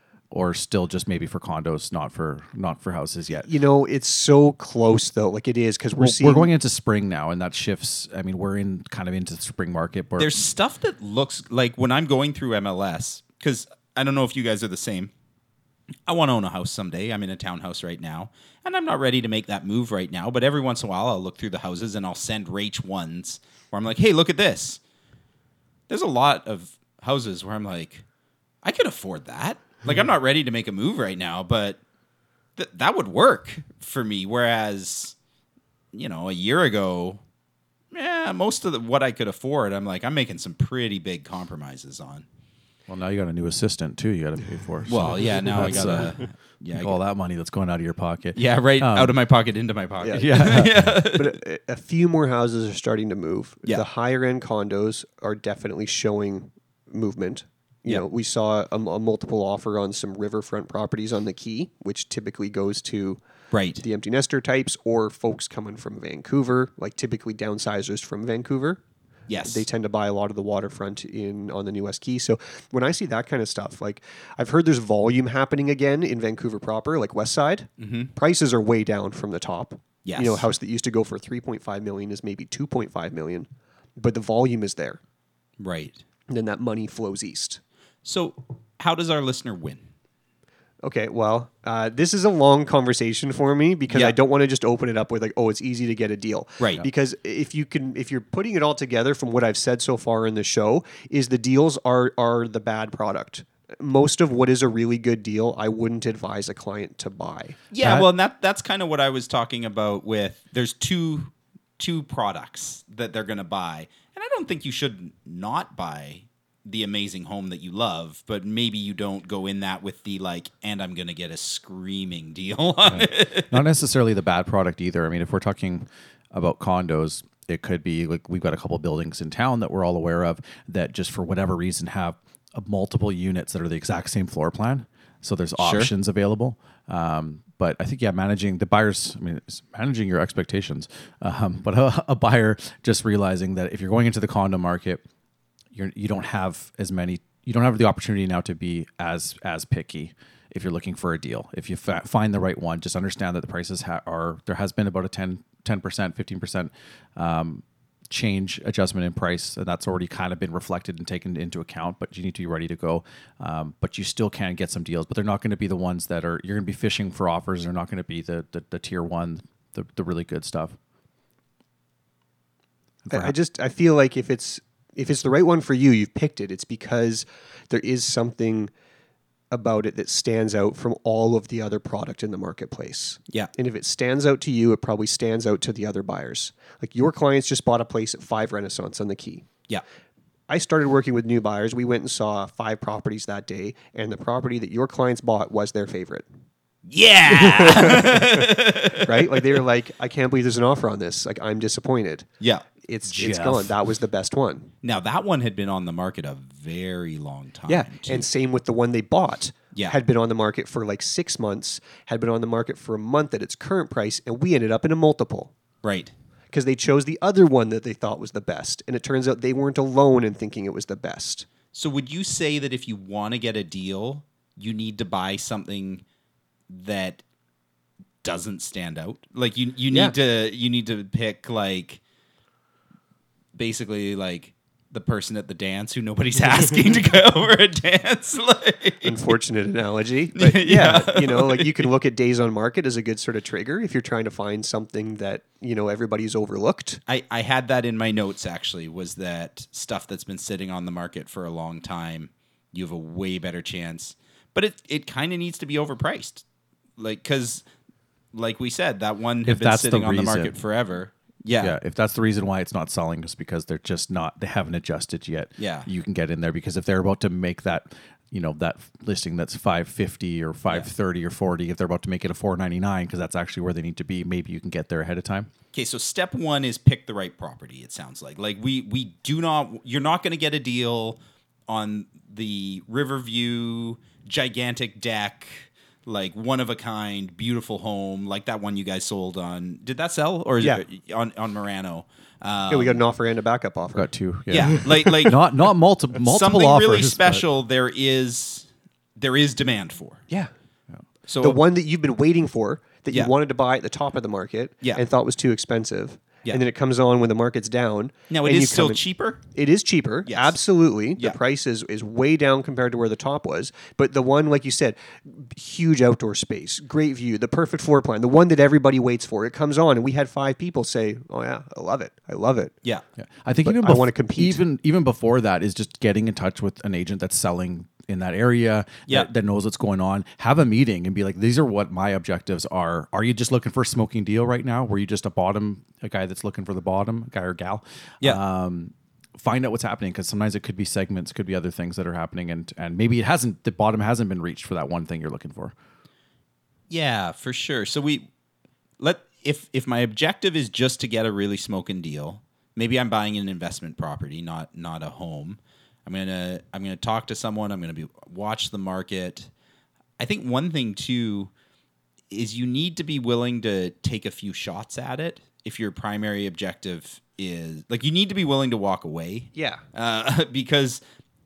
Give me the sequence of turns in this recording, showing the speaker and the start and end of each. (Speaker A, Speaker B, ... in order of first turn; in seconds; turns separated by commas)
Speaker A: 0.3-3.5, Speaker B: 3.4-6.5, Speaker A: 6.0-10.4, Speaker C: 10.2-15.1, Speaker C: 16.1-24.8, Speaker C: 25.9-28.0, Speaker C: 28.6-31.8, Speaker C: 32.5-35.1, Speaker C: 35.9-37.2, Speaker C: 37.9-42.2, Speaker A: 42.9-46.2, Speaker C: 44.9-47.0, Speaker B: 45.6-45.9, Speaker A: 46.7-49.2, Speaker C: 48.3-51.3, Speaker B: 50.0-63.2, Speaker A: 50.1-50.9, Speaker C: 63.5-63.8, Speaker B: 63.8-68.8, Speaker C: 69.3-69.7, Speaker B: 69.5-85.0, Speaker C: 77.8-78.1, Speaker C: 80.0-80.5, Speaker C: 85.6-86.0, Speaker B: 86.3-87.6, Speaker C: 88.0-89.8, Speaker B: 90.8-107.6, Speaker C: 93.9-94.2, Speaker C: 96.6-96.8, Speaker C: 107.7-123.6, Speaker A: 122.9-145.0, Speaker C: 135.6-135.9, Speaker A: 145.7-170.8, Speaker A: 173.1-173.3, Speaker B: 173.1-178.7, Speaker B: 179.5-189.5, Speaker B: 190.5-196.3, Speaker C: 196.9-199.6, Speaker B: 197.3-202.3, Speaker C: 202.4-203.6, Speaker B: 202.8-204.7, Speaker C: 204.8-208.2, Speaker B: 207.7-215.5, Speaker C: 215.8-216.1, Speaker B: 216.5-221.5, Speaker C: 221.7-226.0, Speaker C: 226.7-227.2, Speaker C: 228.2-232.0, Speaker C: 233.5-239.3, Speaker B: 239.0-247.0, Speaker C: 240.3-241.9, Speaker C: 247.1-256.4, Speaker C: 257.0-257.6, Speaker C: 258.3-261.8, Speaker A: 259.4-260.6, Speaker A: 261.6-275.5, Speaker C: 265.6-265.9, Speaker C: 275.7-293.0, Speaker B: 292.7-294.1, Speaker A: 293.9-297.4, Speaker C: 294.5-295.4, Speaker C: 296.1-300.2, Speaker C: 301.3-301.6, Speaker B: 301.4-322.7, Speaker C: 308.3-309.4, Speaker C: 310.2-310.6, Speaker A: 323.2-345.7, Speaker B: 323.6-324.6, Speaker C: 346.9-348.3, Speaker C: 349.0-359.5, Speaker C: 360.2-361.5, Speaker C: 362.3-371.0, Speaker B: 369.5-369.8